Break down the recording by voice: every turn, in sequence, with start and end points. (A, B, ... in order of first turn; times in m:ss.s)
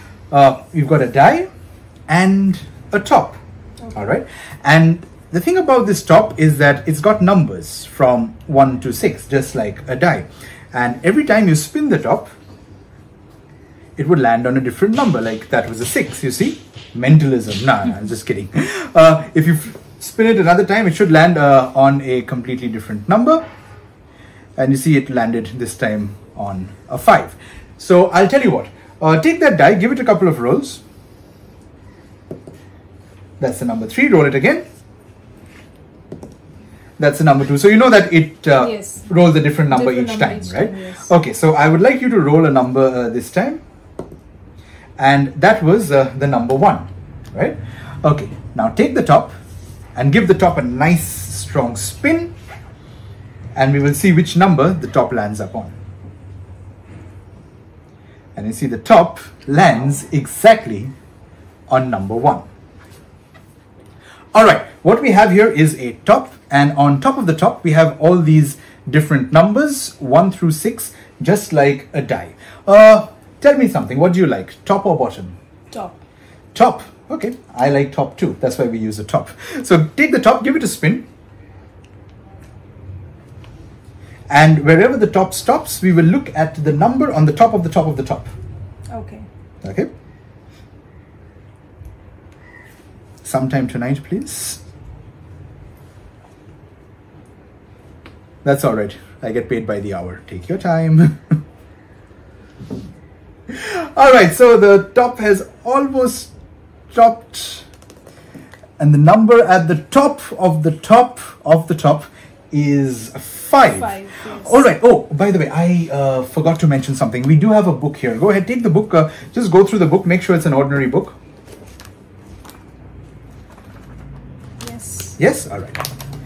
0:00.3-0:01.5 A
0:02.1-0:03.4 A
0:03.9-0:12.3 A
0:14.0-0:23.4 A
0:24.6-0:30.8 A
0:33.4-0:34.6 A
0:37.0-0:43.6 A
0:38.6-0:39.1 B
0:39.7-0:41.1 B
0:45.0-0:49.3 A
0:50.0-0:52.3 A
0:53.6-0:55.8 A
0:58.3-1:00.9 A
1:01.7-1:02.4 A
1:04.3-1:15.4 A
1:15.7-1:16.0 B
1:16.5-1:21.0 A
1:24.3-1:28.3 A
1:28.9-1:29.3 B
1:29.6-1:29.9 A
1:33.2-1:34.6 A
1:38.4-1:41.3 A
1:43.5-1:46.3 A
1:46.9-1:47.7 A
1:48.8-2:01.2 A
1:53.6-1:54.6 B
2:04.6-2:05.2 B
2:05.2-2:05.9 A